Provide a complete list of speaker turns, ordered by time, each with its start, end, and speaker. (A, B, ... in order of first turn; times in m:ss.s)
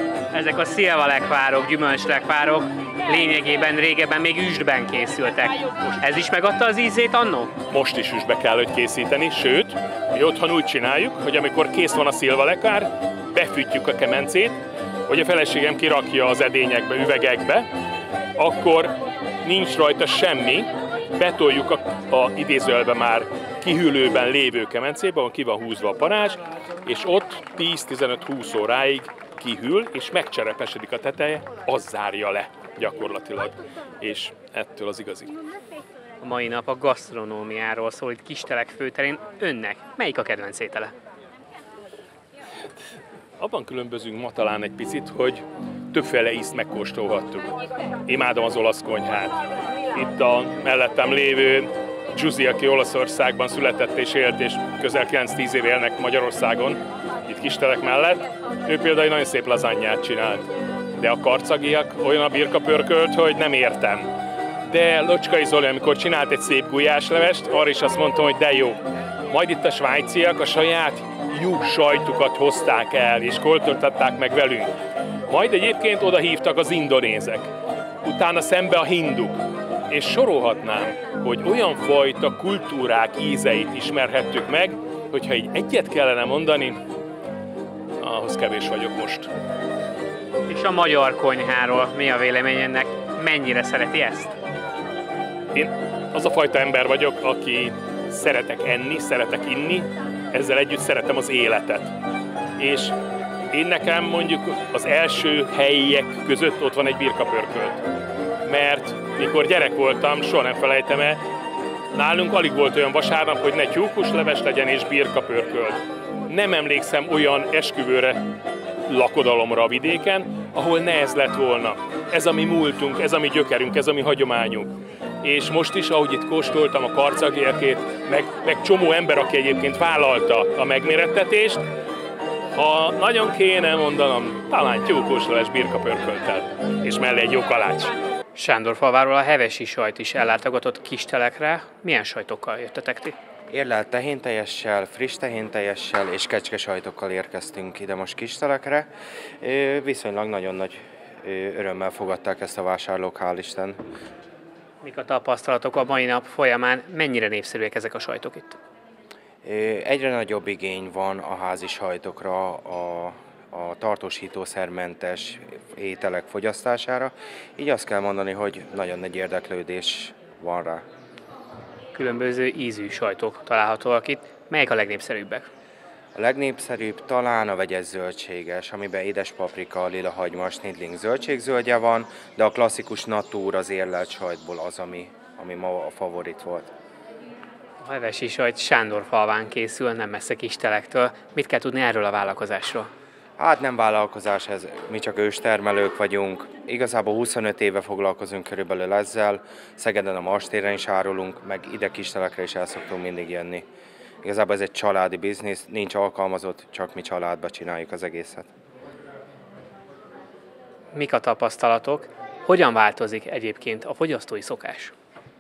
0:00.3-0:07.5 A
0:07.7-0:17.7 B
0:18.4-0:35.3 B
0:36.2-0:40.9 A
0:43.4-0:47.5 B
0:48.1-0:49.4 B
0:49.9-1:00.5 B
1:01.0-1:04.1 B
1:04.7-1:14.7 B
1:15.3-1:17.5 B
1:18.0-1:26.8 B
1:28.0-1:29.3 B
1:30.5-1:34.3 A
1:35.6-1:41.9 B
1:42.6-1:43.0 B
1:43.5-1:47.8 B
1:48.4-1:51.2 B
1:51.9-1:58.2 B
1:58.9-2:04.7 B
2:05.2-2:11.6 B
2:12.6-2:17.9 B
2:18.4-2:23.2 A
2:23.5-2:33.8 C
2:34.8-2:38.6 A
2:39.4-2:50.8 C
2:51.9-2:55.5 A
2:56.2-3:06.7 C
3:07.8-3:12.9 A
3:13.4-3:23.7 C
3:24.2-3:28.5 C
3:30.9-3:34.9 A